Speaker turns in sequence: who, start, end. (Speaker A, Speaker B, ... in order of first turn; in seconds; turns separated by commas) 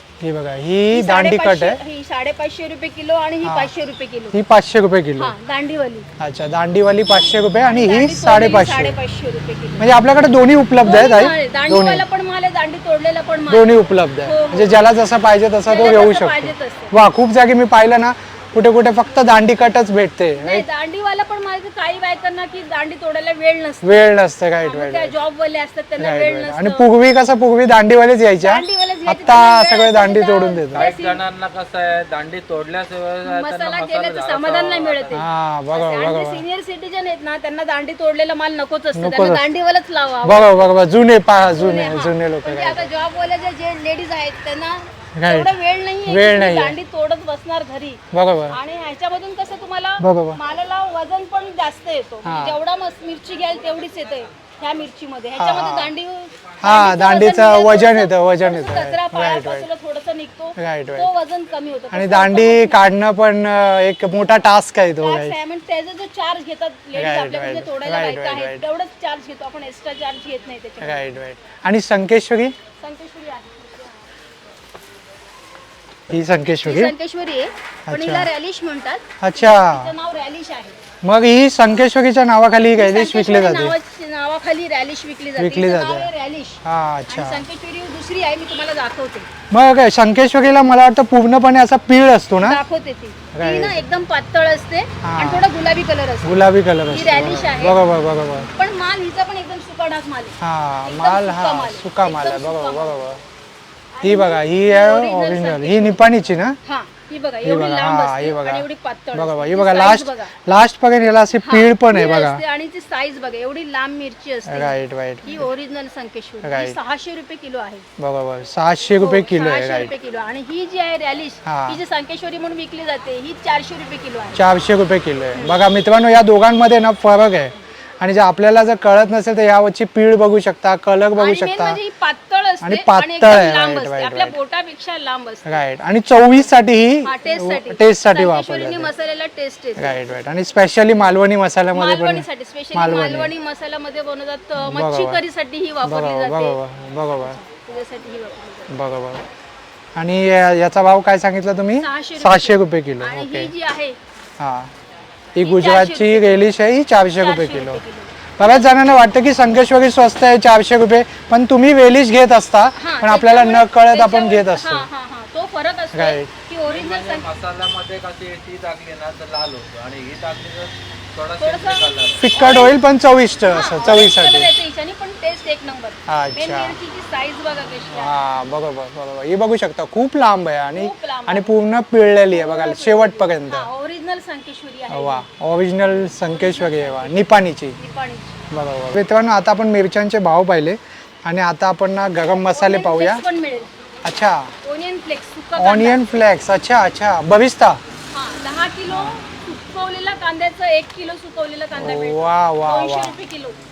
Speaker A: 0.2-1.8, Speaker B: 0.9-4.4, Speaker A: 3.4-3.7, Speaker A: 4.3-5.3, Speaker B: 5.2-6.1, Speaker A: 6.2-8.9, Speaker B: 7.6-9.9, Speaker A: 9.8-12.1, Speaker B: 10.8-14.8, Speaker A: 13.5-20.7, Speaker B: 15.7-17.0, Speaker B: 20.4-24.1, Speaker A: 23.8-25.1, Speaker B: 24.6-26.9, Speaker A: 26.0-30.9, Speaker B: 28.4-31.2, Speaker C: 30.7-35.3, Speaker B: 33.2-35.2, Speaker A: 35.1-36.4, Speaker B: 35.7-40.6, Speaker A: 38.9-39.4, Speaker A: 40.2-42.9, Speaker B: 41.5-62.8, Speaker A: 45.1-45.5, Speaker A: 46.1-46.8, Speaker A: 48.1-48.6, Speaker A: 50.0-50.4, Speaker A: 52.2-52.6, Speaker A: 55.4-55.9, Speaker A: 56.6-59.7, Speaker A: 60.6-61.1, Speaker A: 61.9-65.4, Speaker B: 65.0-71.1, Speaker A: 66.9-68.6, Speaker A: 70.8-72.5, Speaker B: 72.8-74.0, Speaker A: 76.1-76.9, Speaker B: 76.6-80.8, Speaker A: 77.9-78.3, Speaker A: 79.2-79.9, Speaker A: 81.0-83.8, Speaker B: 82.8-89.3, Speaker A: 85.4-86.1, Speaker A: 86.6-87.4, Speaker A: 89.5-92.6, Speaker B: 92.4-97.8, Speaker A: 93.3-93.8, Speaker A: 95.0-95.5, Speaker A: 96.2-98.5, Speaker B: 98.4-103.0, Speaker A: 100.4-103.2, Speaker B: 104.0-106.1, Speaker A: 104.0-106.6, Speaker B: 106.6-110.3, Speaker A: 107.4-112.4, Speaker B: 111.4-117.9, Speaker A: 114.5-115.5, Speaker A: 116.4-116.8, Speaker A: 118.0-119.9, Speaker B: 119.0-124.4, Speaker A: 121.4-121.8, Speaker A: 124.3-131.8, Speaker B: 131.2-135.6, Speaker A: 132.6-134.4, Speaker A: 135.4-138.9, Speaker B: 137.0-140.0, Speaker A: 139.8-143.3, Speaker B: 141.8-146.6, Speaker A: 144.6-145.2, Speaker A: 145.8-147.4, Speaker B: 147.2-148.8, Speaker A: 148.7-149.2, Speaker A: 149.9-153.5, Speaker B: 151.8-154.0, Speaker A: 154.4-154.7, Speaker A: 155.3-157.8, Speaker B: 155.4-156.5, Speaker B: 157.2-158.7, Speaker A: 158.4-164.9, Speaker B: 162.8-167.3, Speaker A: 165.9-166.3, Speaker C: 166.7-172.3, Speaker B: 171.4-172.8, Speaker A: 172.2-174.5, Speaker B: 173.5-178.2, Speaker A: 176.1-176.8, Speaker A: 177.9-183.7, Speaker B: 180.7-181.6, Speaker B: 182.3-185.2, Speaker A: 184.9-187.8, Speaker B: 186.2-188.5, Speaker A: 188.5-193.2, Speaker B: 192.3-193.8, Speaker A: 194.0-194.5, Speaker B: 194.6-196.1, Speaker A: 195.6-197.8, Speaker B: 198.1-203.6, Speaker A: 198.9-199.2, Speaker A: 201.7-203.2